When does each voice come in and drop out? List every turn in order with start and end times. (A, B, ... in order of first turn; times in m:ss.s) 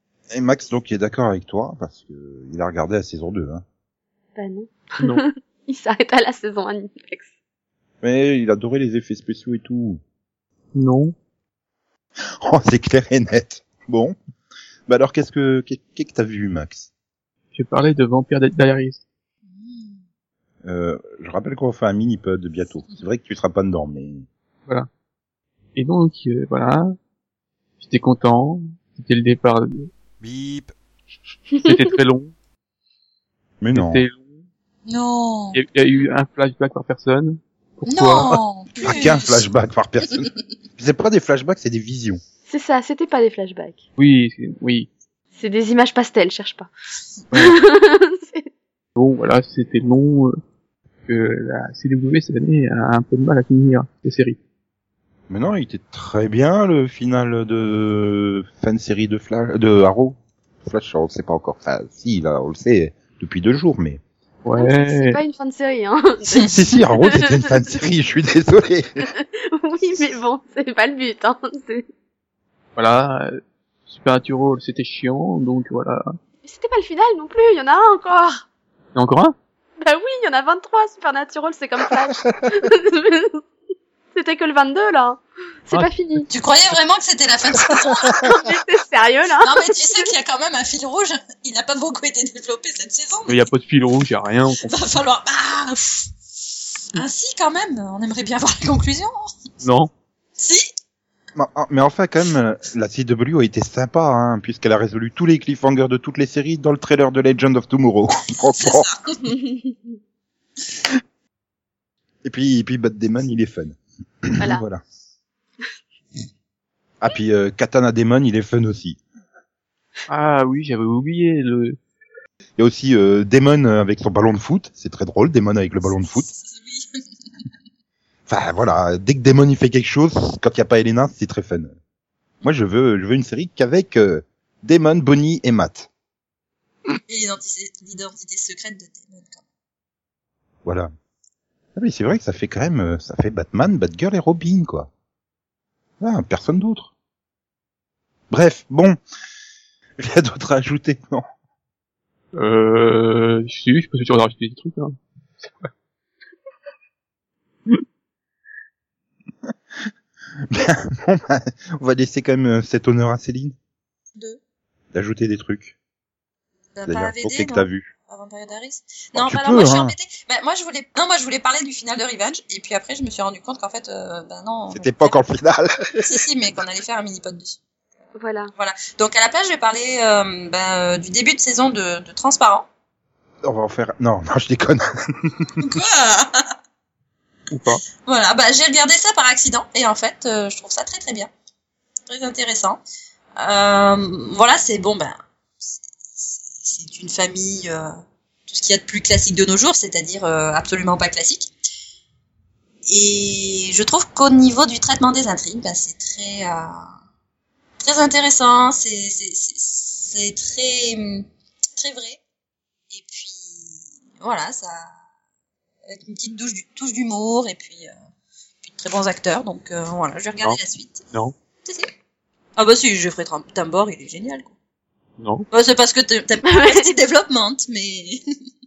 0:00.3-0:03.6 A
0:04.4-0:07.3 B
0:08.0-0:10.0 A
0:10.7-0:11.1 C
0:12.4-0:14.2 A
0:14.9-0:16.9 A
0:17.6-0:19.0 C
0:19.5-0:20.0 D
0:20.6-0:24.3 A
0:25.8-0:27.0 C
0:27.8-0:29.9 C
0:30.2-0:30.7 A
0:31.6-0:32.3 C
0:33.6-0:34.0 A
0:33.7-0:34.2 C
0:34.9-0:35.6 D
0:35.5-0:38.4 C
0:37.9-0:39.5 D
0:38.8-0:42.2 A
0:42.5-0:43.8 B
0:44.0-0:44.9 C
0:45.4-0:46.7 B
0:47.3-0:48.5 B
0:49.0-0:50.4 C
0:51.1-0:54.4 C
0:55.3-1:04.0 A
1:04.4-1:05.2 C
1:04.6-1:06.4 B
1:06.3-1:09.0 A
1:07.0-1:07.5 B
1:09.0-1:11.9 B
1:12.8-1:16.2 C
1:16.4-1:18.4 B
1:19.0-1:19.3 C
1:19.8-1:23.4 B
1:24.2-1:26.3 B
1:26.3-1:28.5 D
1:28.1-1:30.1 B
1:29.4-1:33.4 D
1:33.3-1:34.8 C
1:34.6-1:36.1 D
1:36.9-1:39.3 D
1:39.6-1:39.9 C
1:40.4-1:40.7 D
1:41.4-1:48.9 A
1:48.6-1:49.2 D
1:49.3-1:49.8 B
1:52.2-1:54.8 A
1:54.4-1:54.6 B
1:57.0-1:59.0 A
2:00.1-2:01.8 C
2:02.6-2:06.3 A
2:06.3-2:07.0 D
2:08.3-2:11.8 A
2:12.4-2:15.9 A
2:17.1-2:19.4 D
2:20.6-2:20.9 A
2:21.8-2:24.9 A
2:26.0-2:26.9 A
2:28.3-2:29.0 A
2:30.0-2:31.3 A
2:32.3-2:35.0 C
2:40.5-2:43.6 A
2:44.9-2:45.8 A
2:46.8-2:55.2 D
2:46.9-2:47.9 A
2:49.2-2:50.0 A
2:54.7-2:56.2 A
2:56.0-2:57.6 D
2:58.2-2:58.5 B
2:58.6-3:02.7 D
3:03.4-3:05.6 A
3:05.6-3:06.5 D
3:07.5-3:07.8 C
3:08.1-3:11.3 D
3:12.1-3:12.8 D
3:13.4-3:15.2 D
3:16.2-3:17.9 D
3:18.5-3:21.5 D
3:22.9-3:26.8 D
3:27.8-3:31.3 D
3:31.8-3:32.2 D
3:32.9-3:34.9 D
3:35.9-3:37.9 D
3:38.6-3:41.0 D
3:41.6-3:41.9 D
3:42.6-3:44.5 D
3:45.2-3:45.5 C
3:45.5-3:48.2 D
3:46.5-3:46.8 B